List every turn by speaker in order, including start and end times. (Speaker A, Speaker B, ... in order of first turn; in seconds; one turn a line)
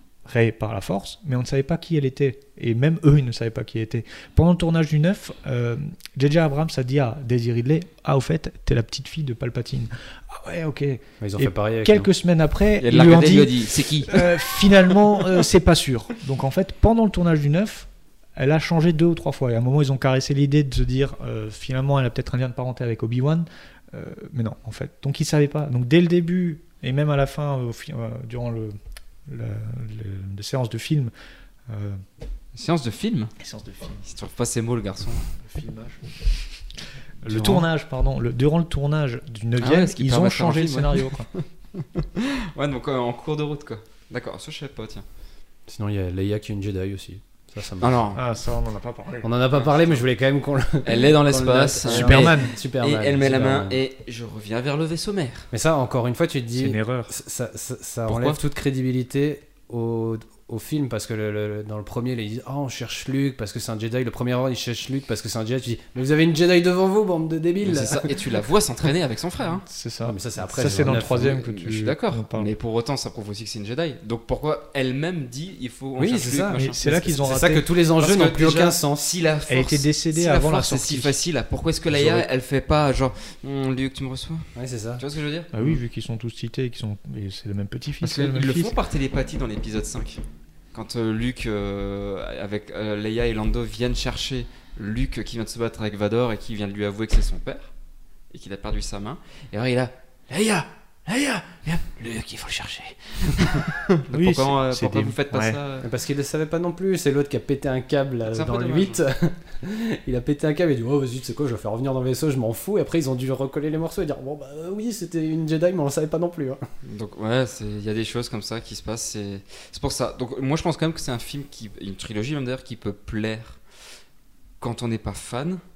Speaker A: 0.2-31.1
Speaker B: 11.2-12.1
Speaker C: 12.8-14.6
Speaker A: 31.7-32.0
Speaker C: 32.5-33.3
Speaker A: 33.4-34.0
Speaker C: 34.0-35.3
Speaker A: 35.4-36.1
Speaker A: 37.2-41.3
Speaker C: 37.3-37.7
Speaker C: 39.6-45.0
Speaker B: 45.7-48.1
Speaker C: 47.8-48.2
Speaker A: 48.1-49.4
Speaker B: 49.2-53.8
Speaker C: 49.5-50.0
Speaker C: 50.8-55.5
Speaker A: 51.9-52.6
Speaker B: 55.5-68.4
Speaker A: 56.6-57.1
Speaker A: 58.1-58.4
Speaker C: 67.6-69.7
Speaker A: 69.6-72.5
Speaker B: 70.0-71.3
Speaker C: 70.8-77.2
Speaker B: 76.0-79.1
Speaker A: 76.5-77.7
Speaker C: 78.0-85.5
Speaker A: 79.5-81.2
Speaker B: 81.9-82.3
Speaker B: 84.5-85.0
Speaker A: 85.5-88.8
Speaker C: 88.0-90.2
Speaker C: 90.7-97.7
Speaker C: 98.3-105.9
Speaker A: 104.1-105.6
Speaker B: 105.8-116.6
Speaker C: 108.3-109.0
Speaker C: 116.8-123.6
Speaker C: 124.6-125.6